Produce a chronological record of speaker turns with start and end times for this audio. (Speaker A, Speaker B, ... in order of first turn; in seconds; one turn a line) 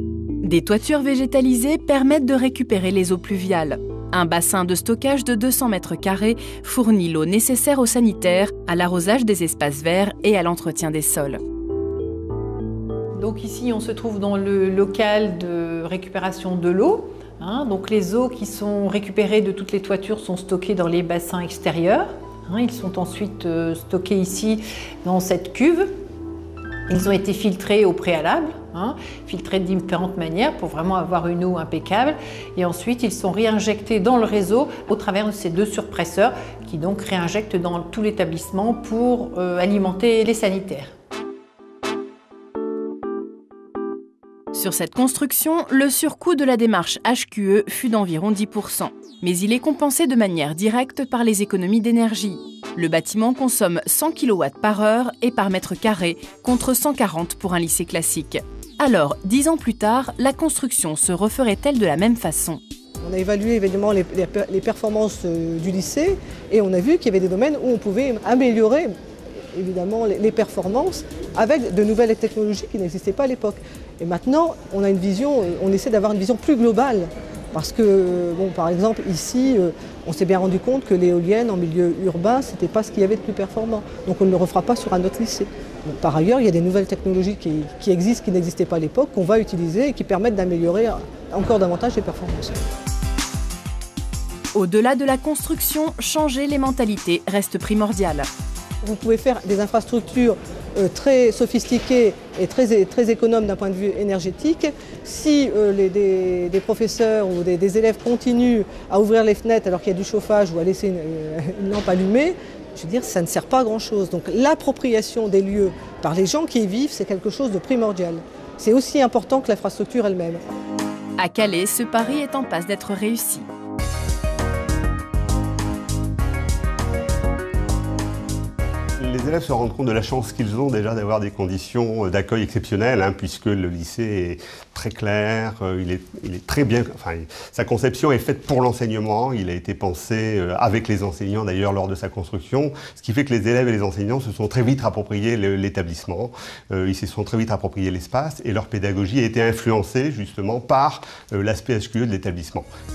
Speaker A: 0.4-11.4
Speaker B: 13.2-25.9
Speaker B: 26.9-40.9
Speaker A: 44.5-62.6
Speaker C: 63.0-68.9
Speaker C: 69.5-92.6
Speaker A: 94.5-98.3
Speaker C: 98.8-120.4
Speaker A: 121.2-123.5
Speaker D: 129.0-152.7